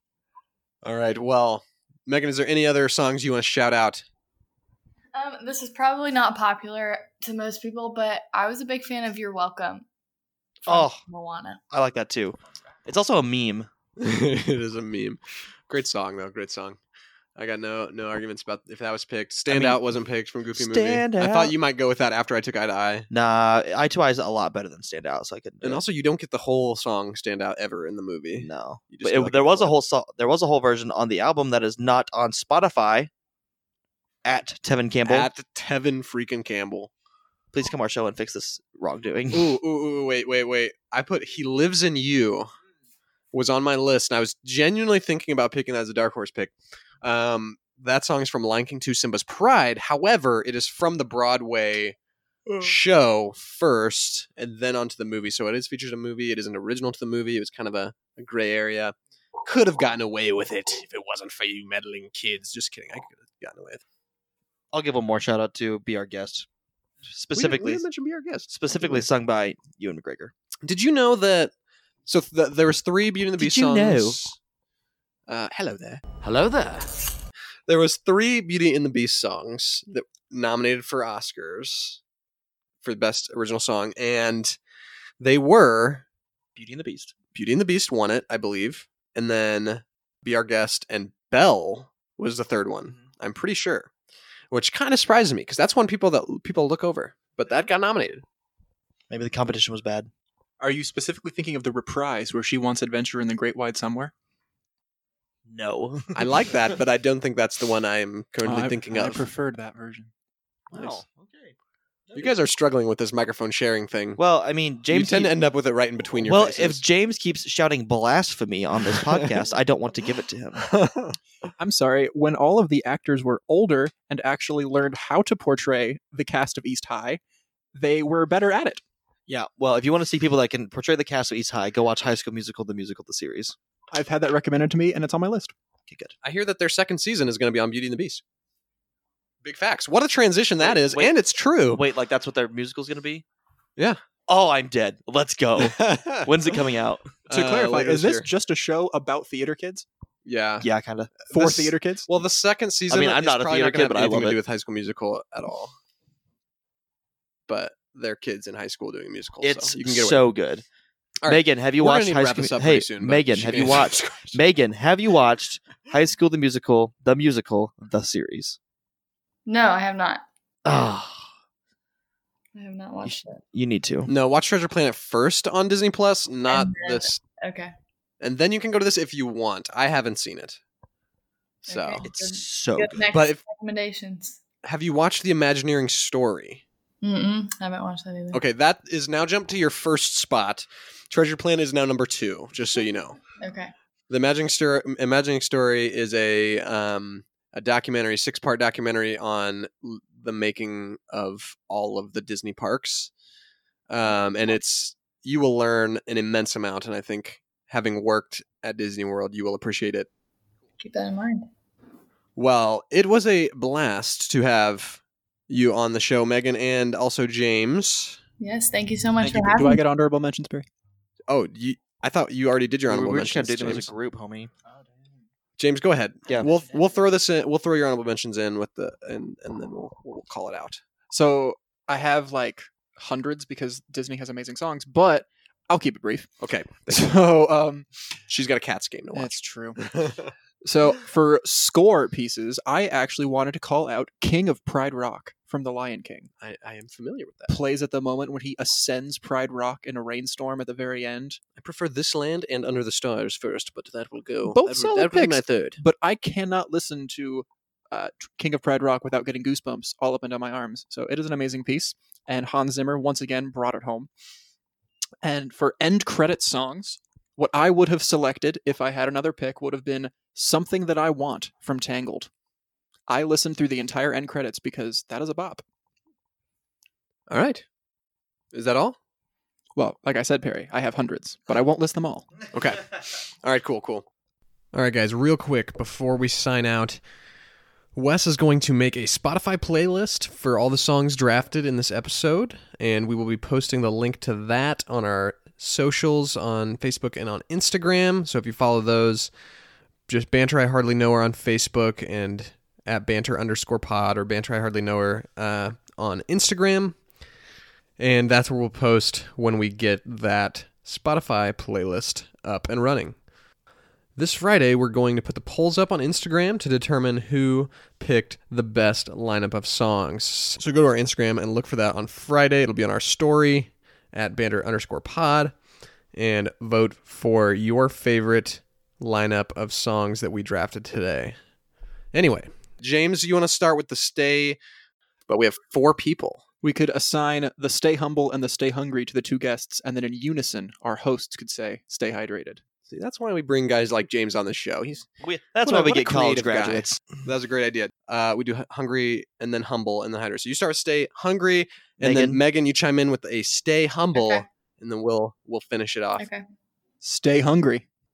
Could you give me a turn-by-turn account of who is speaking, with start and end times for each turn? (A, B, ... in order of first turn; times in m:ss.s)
0:00.8-0:04.0 A
0:05.1-0:09.8 B
0:10.7-0:11.6 B
0:10.7-0:11.0 C
0:11.7-0:13.7 C
0:14.0-0:16.8 A
0:17.4-0:23.1 A
0:19.5-0:19.8 C
0:20.6-0:21.6 C
0:23.1-0:25.8 C
0:25.6-0:29.7 A
0:28.4-0:33.1 C
0:34.2-0:35.3 C
0:35.1-0:36.9 A
0:37.5-0:39.6 C
0:39.3-0:42.5 A
0:43.3-0:52.0 A
0:52.6-0:58.9 A
0:59.4-1:03.8 A
1:04.7-1:06.5 C
1:07.1-1:07.9 C
1:07.3-1:09.1 A
1:08.5-1:10.3 C
1:10.6-1:11.5 A
1:12.1-1:14.4 A
1:13.4-1:14.2 C
1:15.3-1:16.7 A
1:17.7-1:22.0 A
1:22.8-1:24.6 A
1:25.2-1:26.0 A
1:26.6-1:27.1 C
1:27.3-1:33.9 A
1:34.5-1:38.2 A
1:39.1-1:40.1 C
1:40.6-1:44.1 D
1:45.5-1:46.3 C
1:46.2-1:49.3 A
1:48.4-1:50.1 D
1:50.7-1:51.5 C
1:50.7-1:51.0 A
1:52.1-1:52.4 C
1:52.1-1:54.2 A
1:54.2-1:55.3 C
1:54.9-1:56.8 A
1:56.2-2:00.7 C
2:00.7-2:01.2 A
2:01.6-2:07.2 D
2:07.8-2:08.8 D
2:09.3-2:13.6 C
2:13.9-2:15.5 D
2:15.9-2:16.2 C
2:16.2-2:18.2 A
2:19.4-2:21.8 A
2:20.6-2:21.2 C
2:21.7-2:23.2 C
2:24.3-2:27.1 C
2:25.6-2:26.6 A
2:27.3-2:28.3 A
2:27.3-2:29.9 D
2:30.3-2:35.8 A
2:30.6-2:31.1 C
2:31.3-2:32.1 D
2:32.9-2:34.4 C
2:37.5-2:40.3 A
2:39.4-2:40.6 C
2:41.2-2:44.4 A
2:41.3-2:48.6 C
2:49.5-2:50.2 B
2:50.6-2:51.3 C
2:52.6-2:53.4 B
2:53.0-2:54.1 C
2:54.1-2:57.2 A
2:56.5-2:57.7 B
2:58.2-3:00.6 A
3:01.6-3:02.0 A
3:01.7-3:04.4 B
3:02.0-3:03.1 C
3:03.1-3:03.4 A
3:04.6-3:06.6 A
3:07.0-3:08.4 B
3:08.3-3:13.2 A
3:13.4-3:13.7 B
3:14.1-3:23.1 A
3:23.9-3:30.1 A
3:30.8-3:31.5 B
3:32.4-3:38.2 A
3:38.4-3:39.8 B
3:39.2-3:40.7 D
3:41.3-3:43.9 A
3:42.9-3:44.5 C
3:45.6-3:50.8 A
3:51.1-3:56.3 D
3:56.4-3:57.2 A
3:56.9-3:57.9 D
3:58.3-4:00.3 A
3:59.1-3:59.8 D
4:00.6-4:06.3 D
4:06.4-4:07.6 A
4:07.5-4:11.4 D
4:11.6-4:15.8 A
4:14.4-4:24.1 D
4:25.2-4:32.3 D
4:33.1-4:35.6 D
4:37.3-4:37.6 A
4:38.5-4:39.0 A
4:39.8-4:42.3 D
4:42.5-4:44.1 A
4:44.7-4:47.0 A
4:48.0-4:59.3 A
5:00.1-5:07.0 A
5:08.0-5:13.2 A
5:14.2-5:25.6 A
5:26.1-5:31.4 A
5:32.1-5:34.6 A
5:35.3-5:36.4 A
5:36.6-5:42.6 D
5:42.9-5:45.1 A
5:45.2-5:47.0 C
5:45.6-5:56.3 A
5:52.0-5:52.4 C
5:54.1-5:54.4 B
5:56.2-5:56.4 B
5:57.0-5:57.9 D